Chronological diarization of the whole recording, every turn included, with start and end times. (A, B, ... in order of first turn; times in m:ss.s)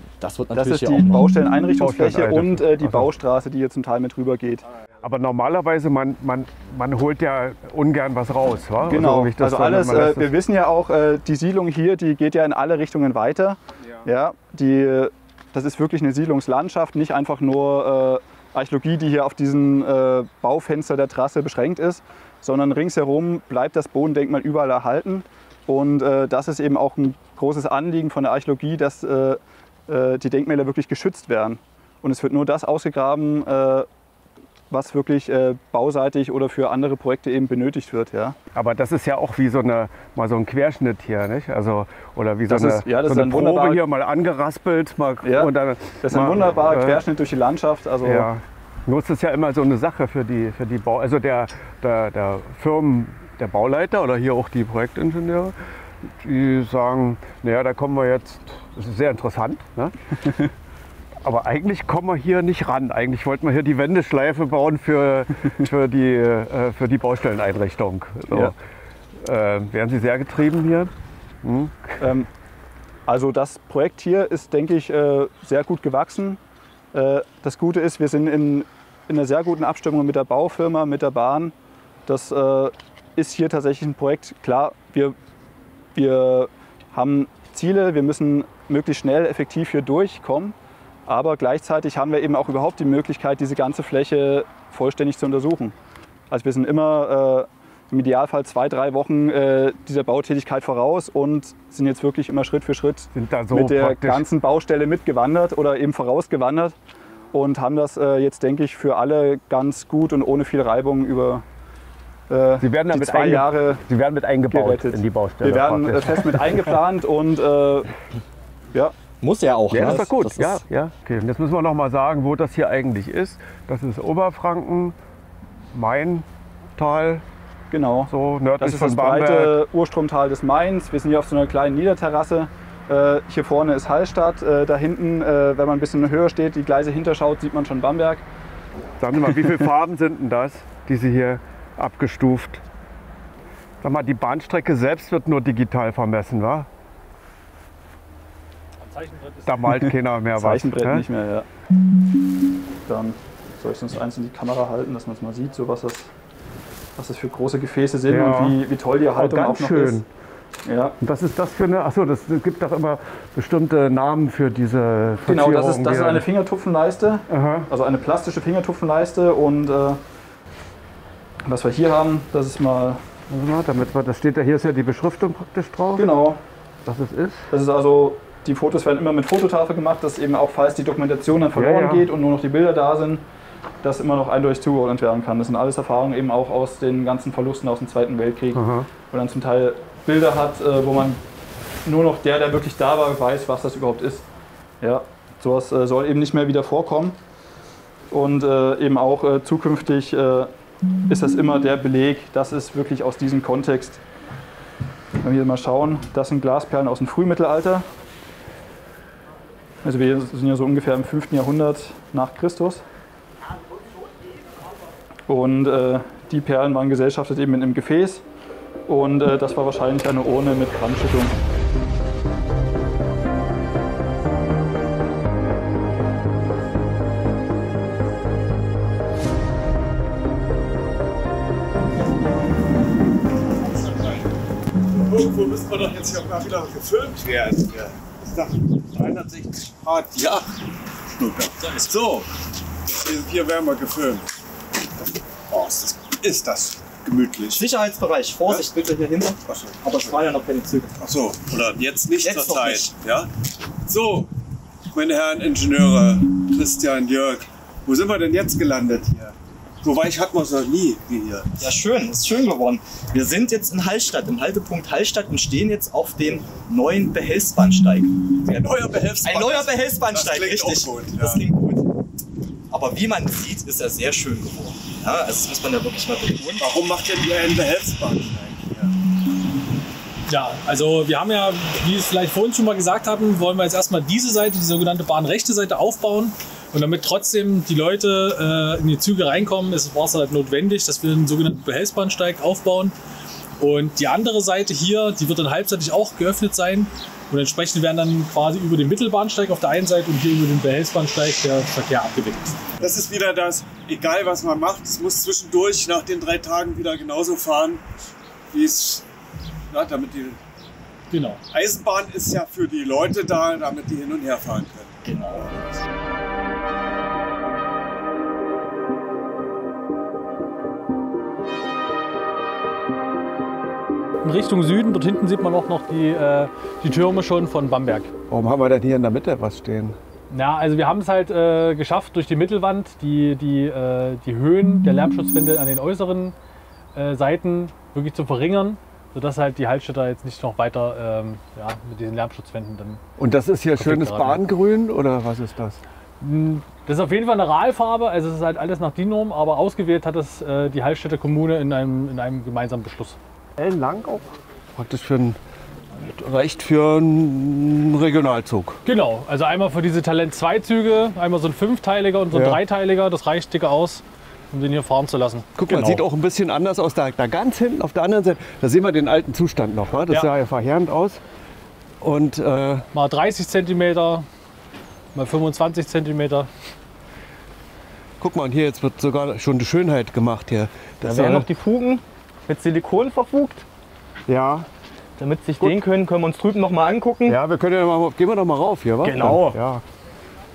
0:00.2-0:01.3 A
0:00.5-0:04.6 B
0:01.8-0:03.1 C
0:05.0-0:10.3 C
0:08.9-0:33.9 B
0:34.7-0:38.4 B
0:38.5-0:47.0 C
0:42.5-0:43.8 B
0:45.2-0:45.5 B
0:46.0-0:48.3 B
0:48.0-0:59.9 C
1:01.2-1:08.6 C
1:09.2-1:10.9 C
1:11.4-1:12.0 C
1:12.0-1:12.3 B
1:13.1-1:16.4 B
1:16.9-1:21.5 B
1:22.1-1:25.2 B
1:26.0-1:30.6 B
1:31.1-1:35.7 B
1:36.3-1:46.8 B
1:43.1-1:44.3 C
1:47.3-1:51.4 B
1:52.3-1:53.8 B
1:52.6-1:56.7 C
1:54.5-1:57.9 B
1:59.2-2:00.6 A
1:59.7-2:05.0 C
2:05.7-2:06.2 C
2:06.8-2:07.2 C
2:07.7-2:18.2 B
2:08.1-2:09.6 C
2:19.0-2:22.6 C
2:23.8-2:26.7 C
2:28.8-2:29.6 D
2:29.5-2:31.1 C
2:29.7-2:31.5 B
2:32.9-2:36.1 B
2:37.0-2:40.0 B
2:38.1-2:38.6 C
2:39.2-2:40.1 C
2:40.7-2:41.0 B
2:41.0-2:46.3 C
2:45.3-2:50.0 B
2:47.3-2:47.7 C
2:51.4-2:53.0 B
2:53.3-2:56.1 C
2:56.0-2:56.4 B
2:56.8-2:57.5 C
2:57.5-3:03.2 B
3:01.5-3:02.1 C
3:03.8-3:11.2 B
3:08.5-3:08.9 C
3:11.8-3:14.2 B
3:14.8-3:17.2 B
3:18.1-3:20.5 B
3:21.1-3:24.0 B
3:25.2-3:27.8 B
3:29.8-3:32.8 B
3:35.3-3:38.2 B
3:38.9-3:41.4 B
3:53.5-4:00.5 C
4:01.1-4:02.3 C
4:02.8-4:04.3 C
4:05.0-4:07.6 C
4:07.5-4:11.0 A
4:09.5-4:09.9 C
4:11.0-4:13.3 C
4:12.2-4:12.9 A
4:13.8-4:14.3 C
4:14.9-4:21.6 C
4:21.6-4:32.0 A
4:28.5-4:31.5 C
4:32.7-4:36.7 A
4:36.6-4:39.0 C
4:40.3-4:52.9 D
4:53.6-5:02.7 D
5:02.8-5:07.8 C
5:08.5-5:09.1 C
5:09.7-5:10.4 C
5:11.1-5:11.4 D
5:11.5-5:15.0 C
5:15.0-5:15.8 A
5:24.2-5:28.1 D
5:28.3-5:30.0 C
5:30.3-5:36.3 D
5:37.0-5:43.0 D
5:43.2-5:45.8 C
5:43.8-5:44.5 D
5:46.2-5:53.2 D
5:53.6-5:55.4 C
5:56.0-5:58.8 C
5:58.8-6:06.0 D
6:02.3-6:02.6 C
6:05.6-6:11.2 C
6:12.0-6:12.9 C
6:12.9-6:14.3 D
6:15.2-6:16.5 D
6:18.2-6:21.5 C
6:21.0-6:23.6 A
6:24.3-6:24.7 C
6:25.2-6:27.4 A
6:27.3-6:29.8 C
6:29.0-6:29.6 A